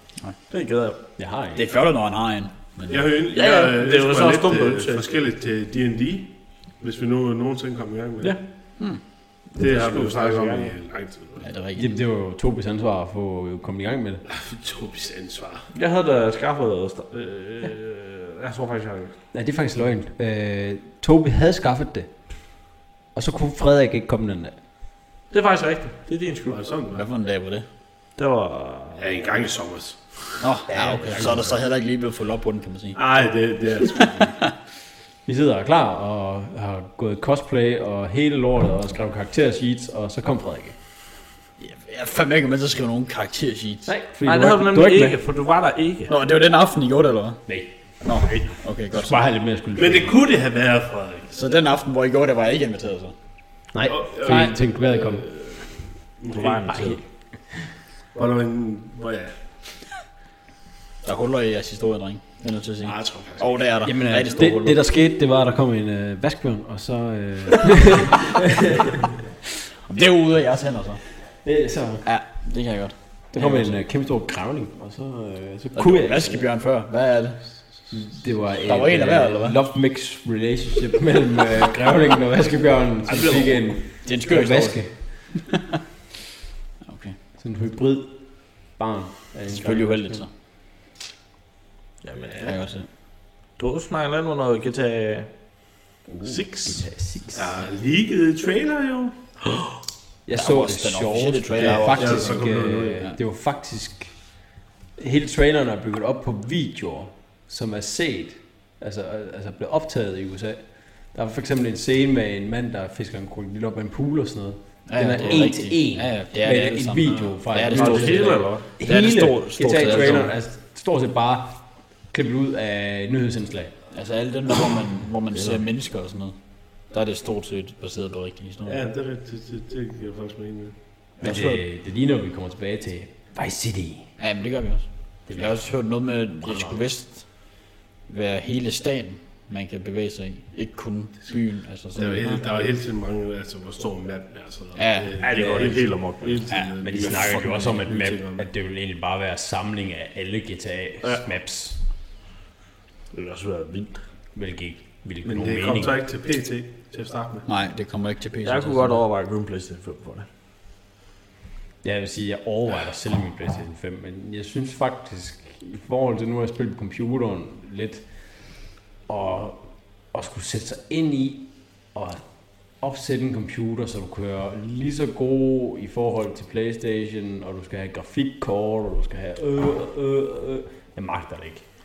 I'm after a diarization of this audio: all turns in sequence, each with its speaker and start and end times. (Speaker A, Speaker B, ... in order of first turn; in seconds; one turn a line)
Speaker A: 0.5-1.0
Speaker B: 1.2-1.6
Speaker C: 1.5-3.0
Speaker D: 2.9-8.3
Speaker A: 3.3-5.1
Speaker A: 9.5-10.7
Speaker D: 9.6-11.4
Speaker C: 11.4-11.9
Speaker B: 11.7-14.2
Speaker D: 14.3-15.7
Speaker A: 15.7-19.1
Speaker B: 19.3-22.1
Speaker B: 23.1-24.6
Speaker A: 25.3-26.6
Speaker D: 26.5-27.1
Speaker C: 26.9-27.6
Speaker A: 28.2-29.0
Speaker D: 29.0-30.1
Speaker C: 30.4-33.0
Speaker B: 30.7-31.5
Speaker D: 33.0-34.4
Speaker C: 34.2-34.5
Speaker B: 35.2-40.8
Speaker C: 41.6-43.9
Speaker B: 43.9-45.1
Speaker A: 44.2-46.1
Speaker C: 46.1-47.5
Speaker C: 48.0-49.2
Speaker B: 48.9-50.1
Speaker D: 49.8-51.3
Speaker C: 51.3-53.1
Speaker B: 53.7-55.4
Speaker D: 53.9-55.6
Speaker D: 56.2-56.8
Speaker A: 56.3-57.0
Speaker B: 56.7-57.0
Speaker D: 58.1-59.3
Speaker C: 61.0-64.8
Speaker D: 62.9-63.4
Speaker B: 63.8-69.0
Speaker C: 69.8-71.1
Speaker B: 71.4-72.0
Speaker C: 72.0-73.8
Speaker B: 73.3-76.4
Speaker C: 75.7-77.5
Speaker B: 77.9-84.9
Speaker C: 78.6-79.6
Speaker A: 83.1-83.6
Speaker C: 84.0-85.6
Speaker C: 86.8-87.2
Speaker B: 87.4-90.2
Speaker C: 89.5-90.3
Speaker A: 92.0-92.5
Speaker C: 92.4-92.9
Speaker A: 93.6-95.3
Speaker B: 96.1-97.5
Speaker A: 96.2-96.8
Speaker D: 97.3-99.2
Speaker B: 100.2-123.7
Speaker C: 100.3-102.4
Speaker D: 101.5-103.0
Speaker C: 114.9-120.3
Speaker A: 117.7-118.7
Speaker C: 123.9-128.8
Speaker D: 128.7-130.7
Speaker C: 131.2-131.6
Speaker B: 131.2-134.1
Speaker C: 134.2-142.4
Speaker B: 135.3-135.6
Speaker B: 136.4-136.8
Speaker D: 141.9-148.4
Speaker C: 144.8-145.6
Speaker A: 145.2-146.4
Speaker C: 146.5-147.8
Speaker B: 146.8-151.8
Speaker A: 153.1-154.0
Speaker B: 154.3-156.0
Speaker D: 155.2-157.4
Speaker C: 157.4-159.0
Speaker A: 158.4-160.3
Speaker B: 161.8-181.7